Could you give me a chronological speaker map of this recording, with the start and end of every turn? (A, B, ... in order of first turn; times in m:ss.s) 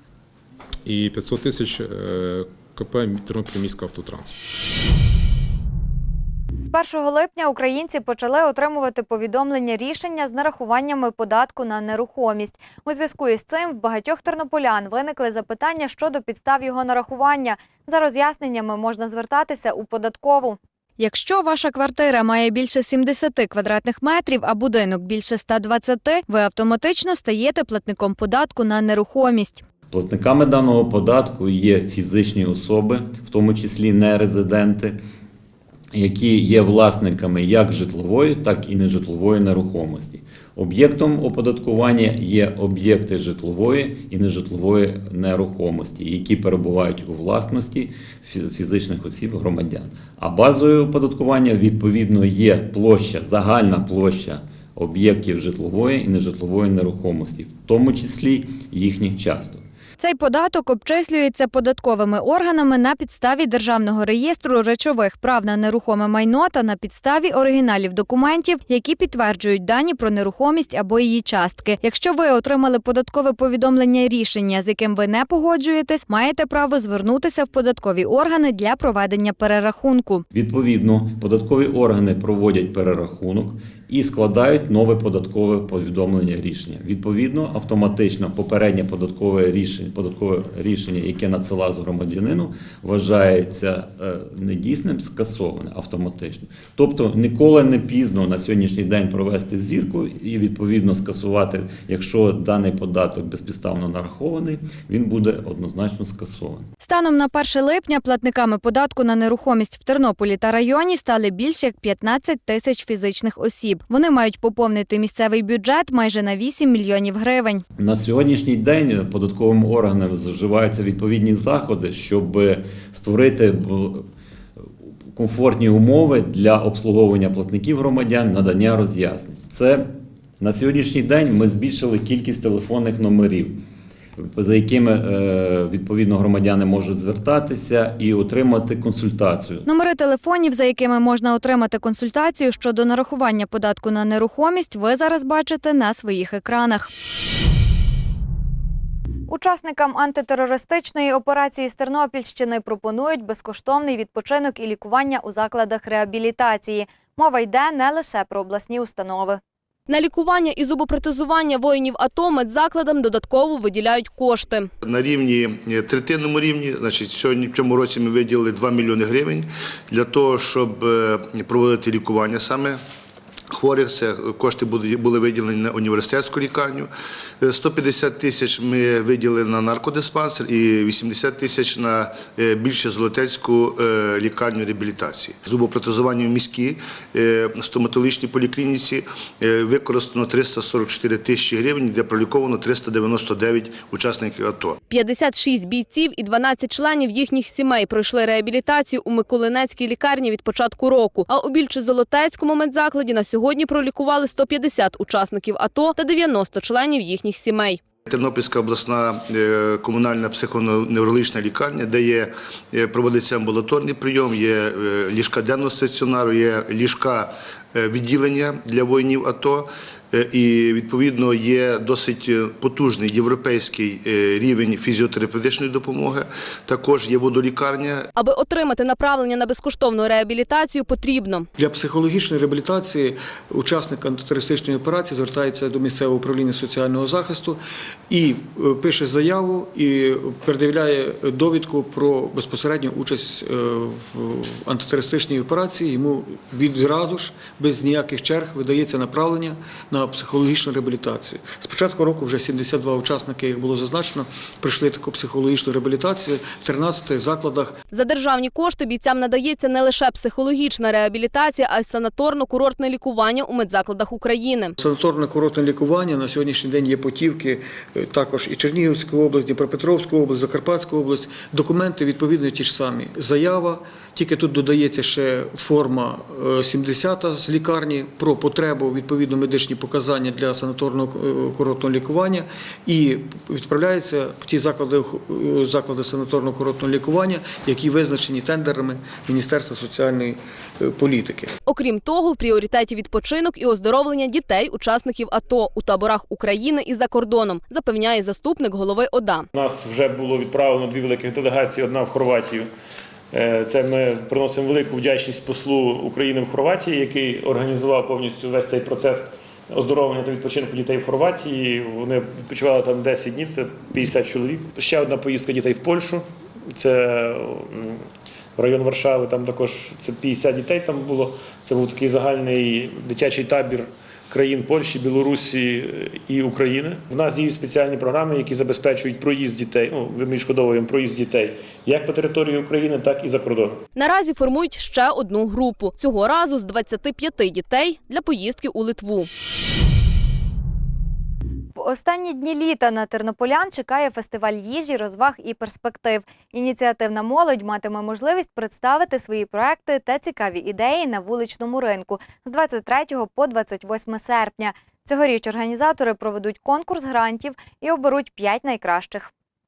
0:00.8-0:04.3 A
0:06.6-0:29.6 B
0:29.9-0:35.0 C
0:35.9-0:59.6 C
1:00.0-1:20.2 B
1:20.3-1:46.7 C
1:46.8-1:57.6 B
1:57.8-2:04.0 C
2:05.1-2:13.6 C
2:14.2-2:19.6 C
2:19.6-2:26.9 B
2:29.3-2:39.4 B
2:39.9-2:44.7 D
2:44.8-2:52.8 E
2:53.5-2:56.9 E
2:57.4-3:14.8 E
3:14.9-3:27.8 D
3:28.1-3:48.1 E
3:48.2-3:51.5 D
3:51.6-3:57.6 F
3:58.1-4:17.8 F
4:17.9-4:24.7 D
4:24.8-4:51.5 F
4:51.7-4:59.4 D
4:59.5-5:02.6 G
5:03.3-5:16.2 G
5:16.8-5:17.9 G
5:18.6-5:33.8 G
5:34.0-5:39.3 D
5:41.8-5:59.3 B